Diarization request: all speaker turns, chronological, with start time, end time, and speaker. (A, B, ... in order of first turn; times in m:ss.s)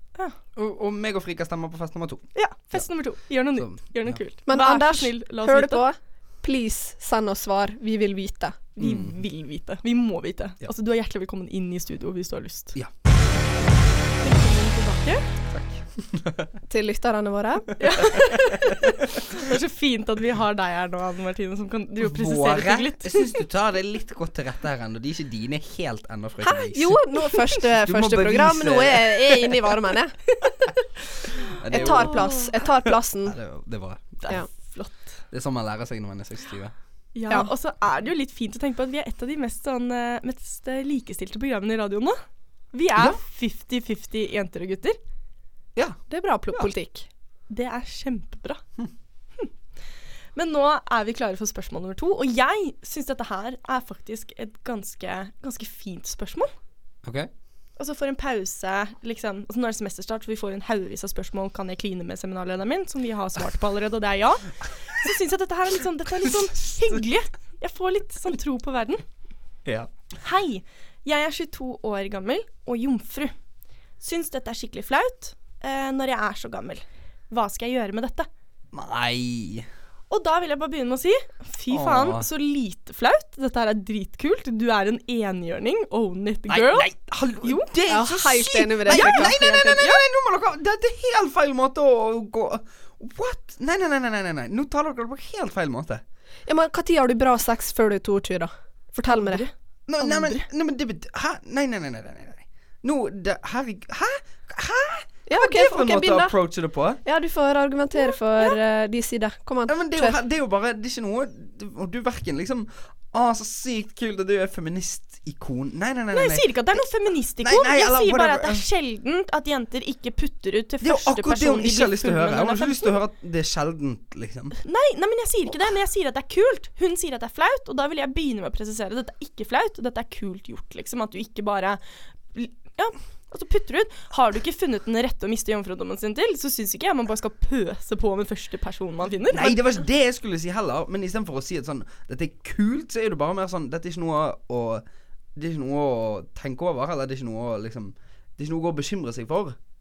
0:00.6-0:04.2 A
0:02.4-0:05.8 B
0:04.5-0:08.6 C
0:08.8-0:12.8 B
0:08.8-0:09.2 A
0:14.2-0:15.3 B
0:15.5-0:16.5 A
0:16.7-0:17.7 C
0:17.8-0:18.8 B
0:19.3-0:23.2 B
0:22.0-0:27.0 A
0:26.4-0:30.2 C
0:27.8-0:29.5 A
0:31.5-0:32.7 A
0:31.7-0:32.5 B
0:31.7-0:33.4 C
0:33.2-0:34.4 A
0:34.2-0:35.2 B
0:35.3-0:36.7 A
0:37.1-0:42.2 B
0:42.7-0:45.0 B
0:45.7-0:46.7 A
0:46.1-0:47.1 C
0:47.5-0:48.6 B
0:50.4-0:56.5 B
0:57.0-0:57.3 A
0:57.8-1:09.0 B
1:06.3-1:07.0 A
1:09.6-1:09.9 A
1:10.2-1:13.3 B
1:14.0-1:18.3 B
1:18.7-1:19.7 A
1:20.1-1:26.9 B
1:21.7-1:22.3 A
1:26.5-1:36.0 A
1:27.4-1:27.7 B
1:27.9-1:29.4 C
1:28.9-1:30.0 B
1:36.5-1:39.5 C
1:39.1-1:40.4 B
1:39.9-1:47.0 A
1:45.3-1:46.4 C
1:47.0-1:50.2 C
1:48.0-1:48.6 B
1:49.7-1:56.6 A
1:56.1-2:02.9 B
1:57.4-1:58.6 A
2:00.8-2:04.5 A
2:04.6-2:19.6 B
2:19.3-2:29.6 A